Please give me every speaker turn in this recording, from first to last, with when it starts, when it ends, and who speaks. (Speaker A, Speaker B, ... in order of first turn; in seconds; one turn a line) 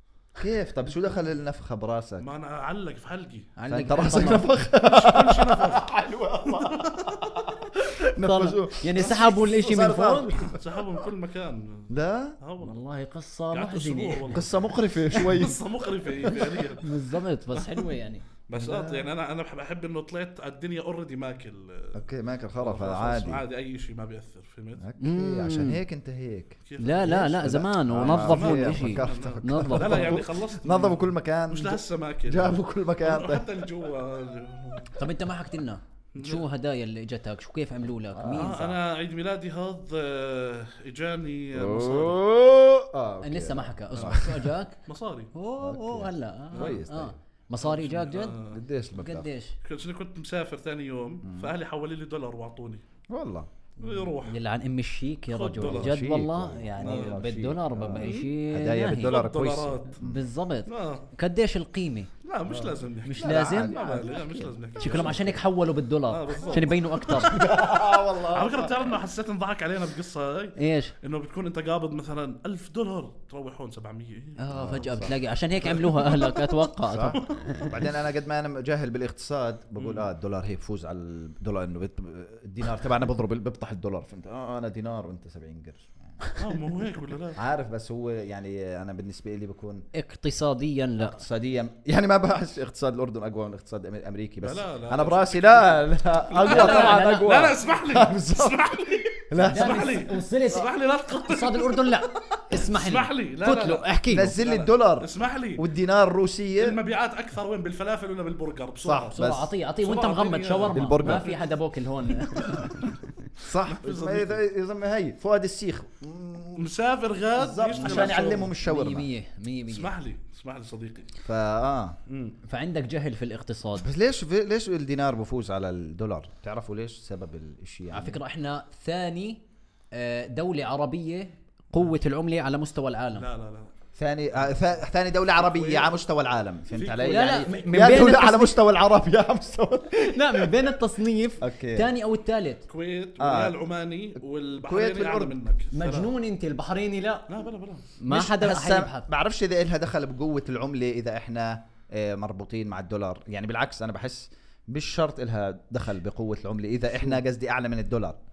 Speaker A: 0.4-2.3
Speaker B: 2.2-3.5
Speaker C: 3.6-4.5
Speaker A: 3.7-11.1
Speaker B: 4.8-5.8
Speaker B: 6.5-7.3
Speaker C: 8.1-10.5
Speaker B: 9.0-9.3
Speaker B: 10.5-12.8
Speaker A: 11.9-12.4
Speaker C: 12.6-14.4
Speaker B: 13.5-16.9
Speaker A: 14.3-15.6
Speaker A: 16.2-16.6
Speaker C: 16.8-18.2
Speaker B: 17.5-17.8
Speaker B: 18.5-22.0
Speaker A: 18.6-19.1
Speaker A: 21.9-23.4
Speaker B: 22.6-24.8
Speaker A: 24.8-33.5
Speaker C: 25.0-25.8
Speaker B: 26.6-27.1
Speaker C: 26.8-30.2
Speaker B: 28.0-34.9
Speaker C: 35.0-38.7
Speaker B: 36.1-36.5
Speaker A: 38.1-38.8
Speaker B: 38.3-42.2
Speaker A: 41.5-44.5
Speaker C: 43.2-44.8
Speaker B: 43.9-44.2
Speaker B: 44.9-45.3
Speaker C: 45.3-48.4
Speaker A: 45.6-47.1
Speaker B: 46.5-46.8
Speaker B: 47.6-48.6
Speaker A: 48.4-49.3
Speaker C: 48.9-49.5
Speaker B: 49.6-52.8
Speaker A: 51.2-51.5
Speaker A: 53.1-53.5
Speaker B: 53.8-54.4
Speaker C: 53.9-59.2
Speaker B: 55.3-55.9
Speaker A: 55.6-60.2
Speaker B: 56.8-57.1
Speaker B: 58.0-58.3
Speaker B: 59.0-60.0
Speaker C: 60.0-62.1
Speaker B: 60.7-61.1
Speaker B: 62.2-65.4
Speaker A: 62.5-65.3
Speaker C: 63.0-64.0
Speaker C: 64.8-67.4
Speaker B: 66.1-67.5
Speaker A: 67.1-68.9
Speaker B: 68.3-74.4
Speaker C: 70.6-70.9
Speaker C: 74.4-77.7
Speaker A: 74.5-75.2
Speaker B: 75.6-76.5
Speaker A: 76.9-86.2
Speaker B: 77.1-77.4
Speaker B: 79.8-80.1
Speaker B: 86.4-87.4
Speaker A: 87.3-89.9
Speaker C: 89.9-91.2
Speaker A: 91.0-98.8
Speaker B: 94.4-105.6
Speaker C: 96.4-97.3
Speaker A: 99.3-100.0
Speaker C: 99.4-104.4
Speaker A: 104.1-106.8
Speaker B: 106.6-109.1
Speaker A: 108.8-109.5
Speaker C: 109.1-112.9
Speaker B: 109.8-111.5
Speaker A: 110.7-111.3
Speaker A: 113.4-116.7
Speaker B: 113.6-114.4
Speaker B: 116.5-118.5
Speaker A: 117.3-119.1
Speaker C: 117.7-119.9
Speaker B: 119.7-121.1
Speaker A: 121.2-122.0
Speaker B: 122.1-122.4
Speaker C: 122.4-123.9
Speaker A: 123.8-128.2
Speaker C: 127.9-129.4
Speaker C: 129.9-133.2
Speaker B: 133.1-133.7
Speaker A: 133.9-140.7
Speaker B: 135.4-135.9
Speaker B: 136.7-137.7
Speaker C: 137.0-138.6
Speaker C: 140.0-142.7
Speaker A: 141.4-141.9
Speaker B: 142.7-146.1
Speaker A: 143.2-143.6
Speaker A: 144.6-145.4
Speaker C: 145.7-147.3
Speaker B: 147.3-147.9
Speaker C: 148.0-149.1
Speaker A: 148.1-158.2